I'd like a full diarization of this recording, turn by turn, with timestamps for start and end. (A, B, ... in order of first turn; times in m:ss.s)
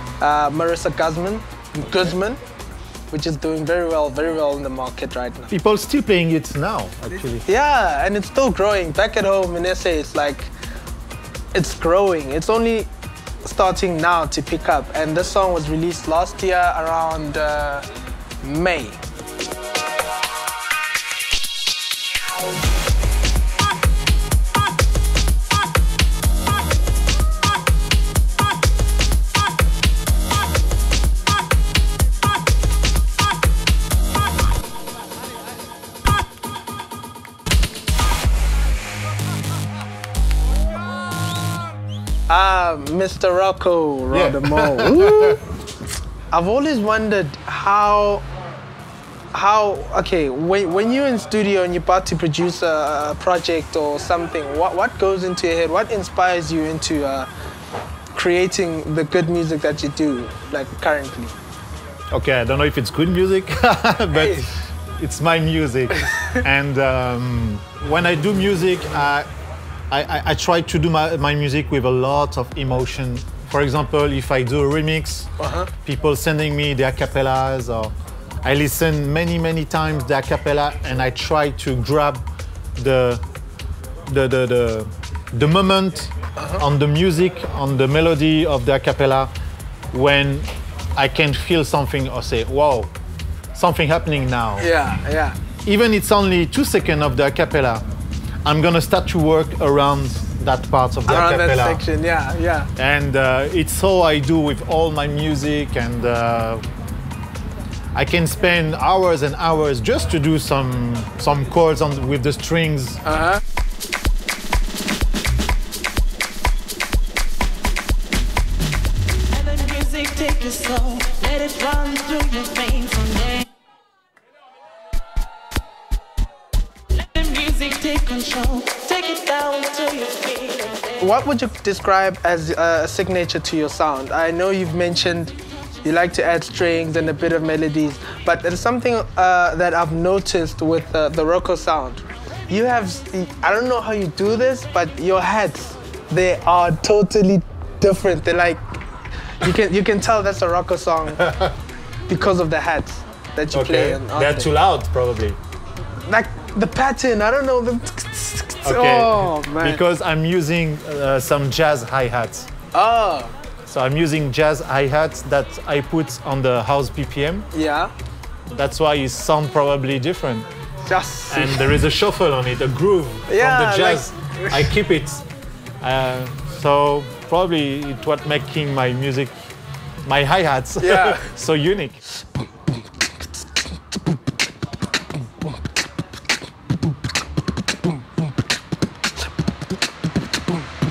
0:00.2-0:02.4 A
0:03.1-0:05.5 A
0:05.5-0:07.4 B
0:07.4-0:10.5 A
0:11.5-0:12.9 A
0:13.4-0:17.9 A
0:18.4-0:19.0 A
0:42.3-0:45.4 A
0:44.1-0:45.4 B
0:46.3-0:48.2 A
0:49.3-0:57.3 A
0:58.1-1:01.4 A
1:02.1-1:09.2 B
1:04.2-1:04.5 A
1:09.9-1:15.3 B
1:15.4-1:15.7 A
1:15.8-1:22.2 B
1:22.8-1:23.2 B
1:24.1-1:29.3 B
1:26.4-1:26.6 A
1:29.9-1:32.9 B
1:33.5-1:34.7 B
1:34.6-1:35.4 A
1:35.6-1:37.8 B
1:38.4-1:41.8 B
1:41.1-1:42.7 A
1:42.8-1:46.6 B
1:47.9-1:53.0 B
1:53.0-1:53.4 A
1:59.3-2:03.4 C
2:07.0-2:10.9 C
2:11.0-2:28.6 A
2:29.4-2:31.4 A
2:31.2-2:31.5 B
2:32.1-2:34.5 A
2:33.5-2:35.4 B
2:36.0-2:39.8 A
2:38.6-2:42.5 B
2:42.7-2:43.3 A
2:43.6-2:47.5 B
2:47.5-2:47.9 A
2:48.5-2:50.4 B
2:50.8-2:51.8 A
2:51.3-2:55.2 B
2:53.3-2:54.7 A
2:55.8-2:59.4 B
3:00.0-3:02.0 B
3:00.8-3:01.3 A